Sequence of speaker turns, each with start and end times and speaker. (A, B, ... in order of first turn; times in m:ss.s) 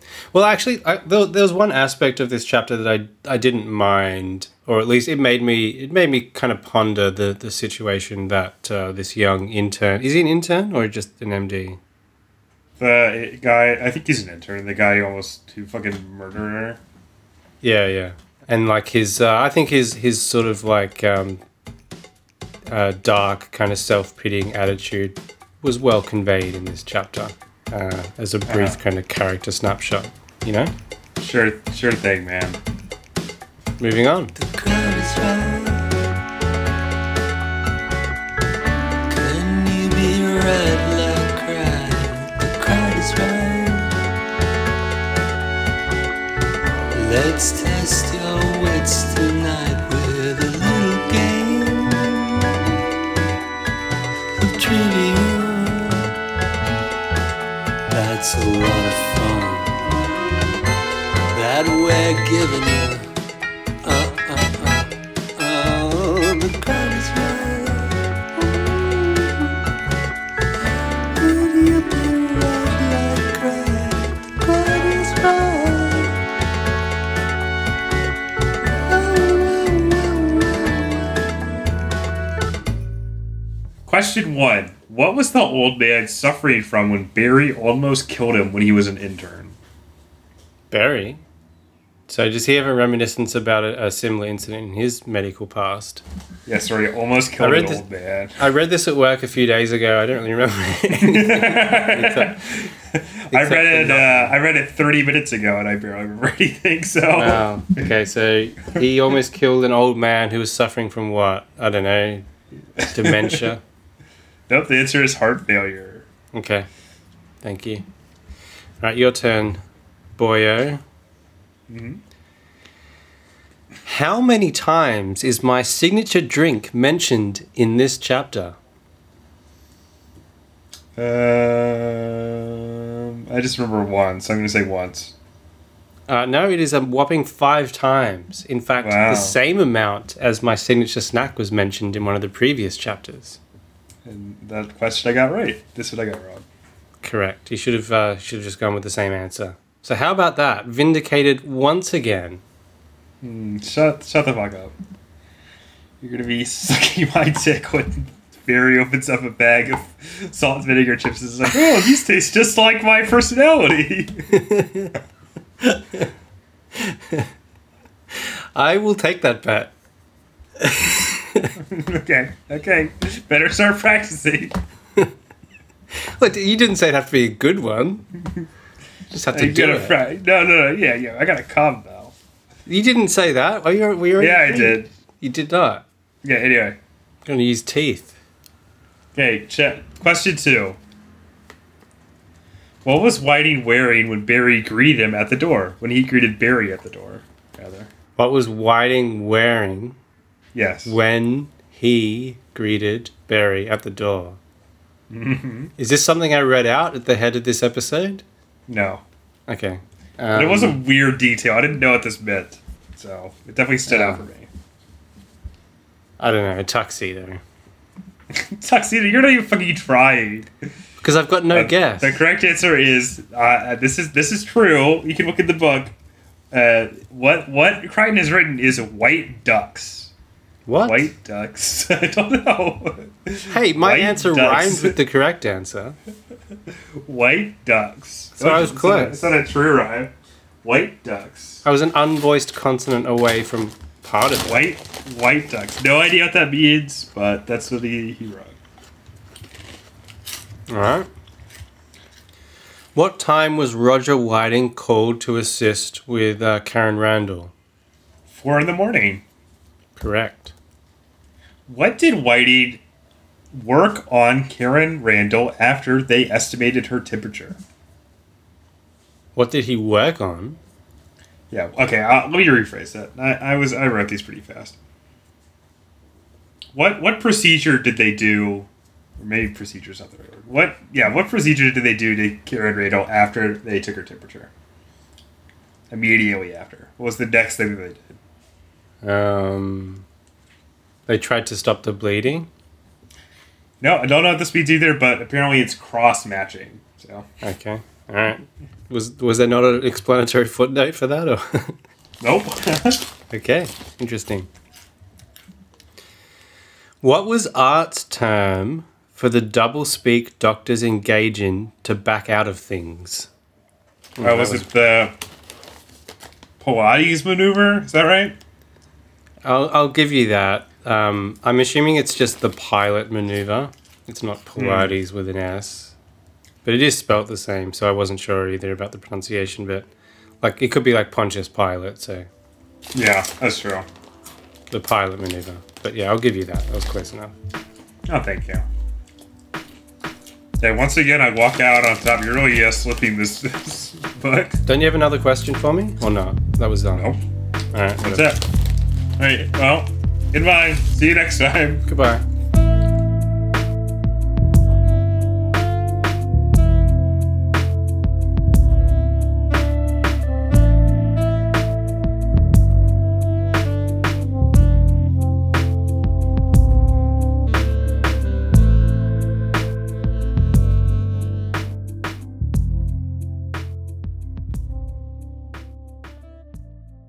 0:00.3-0:11.8 A
0:12.8-0:16.8 B
0:17.6-0:21.4 A
0:22.7-0:30.7 A
0:28.5-0:28.8 B
0:31.2-0:32.6 B
0:33.8-0:34.4 A
0:34.4-0:36.0 C
0:39.1-0:43.9 C
0:46.9-0:52.5 C
0:54.4-0:56.1 C
0:57.9-1:00.0 C
1:01.3-1:03.0 C
1:03.8-1:09.4 C
1:11.1-1:16.2 C
1:18.8-1:21.4 C
1:23.8-1:29.6 B
1:30.7-1:31.2 A
1:32.1-1:36.0 A
1:36.4-1:38.4 B
1:37.4-1:37.8 A
1:38.4-1:42.6 A
1:41.0-1:47.6 B
1:43.3-1:44.4 A
1:47.1-1:52.2 A
1:52.8-1:53.5 B
1:52.8-1:53.6 A
1:54.5-1:56.1 B
1:56.3-1:56.7 A
1:57.4-1:57.8 A
1:58.8-1:59.6 A
2:00.2-2:00.8 A
2:01.7-2:02.0 B
2:03.8-2:08.6 A
2:11.0-2:15.1 B
2:16.1-2:23.4 A
2:18.8-2:19.4 B
2:24.0-2:26.4 B
2:27.0-2:32.4 A
2:33.2-2:34.8 B
2:36.0-2:44.4 B
2:44.3-2:44.9 A
2:45.6-2:46.1 A
2:46.8-2:47.3 A
2:48.1-2:49.7 A
2:50.6-2:51.5 A
2:51.6-2:54.6 B
2:56.0-2:58.2 A
2:59.1-3:00.0 A
2:59.3-3:02.1 B
3:02.6-3:05.8 A
3:04.2-3:04.9 B
3:06.2-3:06.8 B
3:07.2-3:08.1 A
3:09.1-3:10.8 B
3:12.8-3:17.9 B
3:18.2-3:20.0 A
3:20.5-3:21.0 B
3:20.8-3:24.4 A
3:25.1-3:25.7 B
3:25.8-3:28.2 A
3:28.7-3:29.0 B
3:29.5-3:30.8 A
3:30.3-3:34.5 B
3:33.9-3:34.2 A
3:36.2-3:37.4 A
3:38.3-3:40.5 B
3:41.0-3:42.2 A
3:41.5-3:45.9 B
3:46.5-3:50.1 B
3:50.6-3:51.1 A
3:50.8-3:55.0 B
3:53.5-3:56.0 A
3:57.0-4:00.1 B
3:58.4-3:59.3 A
4:00.6-4:01.6 B
4:01.6-4:04.7 A
4:04.4-4:08.6 B
4:10.7-4:11.1 A
4:12.9-4:17.5 A
4:18.3-4:19.2 B
4:20.0-4:20.5 A
4:21.7-4:22.8 B
4:23.5-4:27.6 B
4:29.4-4:30.6 A
4:31.5-4:34.8 B
4:36.7-4:44.5 B
4:45.9-4:48.2 B
4:49.0-4:50.0 A
4:51.1-4:52.5 A
4:53.8-4:57.2 B
4:57.4-5:01.7 A
5:02.2-5:03.0 B
5:03.3-5:04.5 A
5:07.0-5:13.3 A
5:14.2-5:14.7 A
5:14.2-5:15.2 B
5:16.6-5:18.4 B
5:19.4-5:26.0 A
5:24.6-5:25.0 B
5:26.6-5:29.9 A
5:30.4-5:32.3 A
5:32.9-5:33.8 B
5:34.7-5:37.3 A
5:38.1-5:38.6 B
5:40.6-5:44.6 B
5:44.6-5:47.1 A
5:46.9-5:47.2 B
5:47.7-5:48.4 A
5:48.0-5:48.5 B
5:49.2-5:51.8 B
5:51.8-5:52.2 A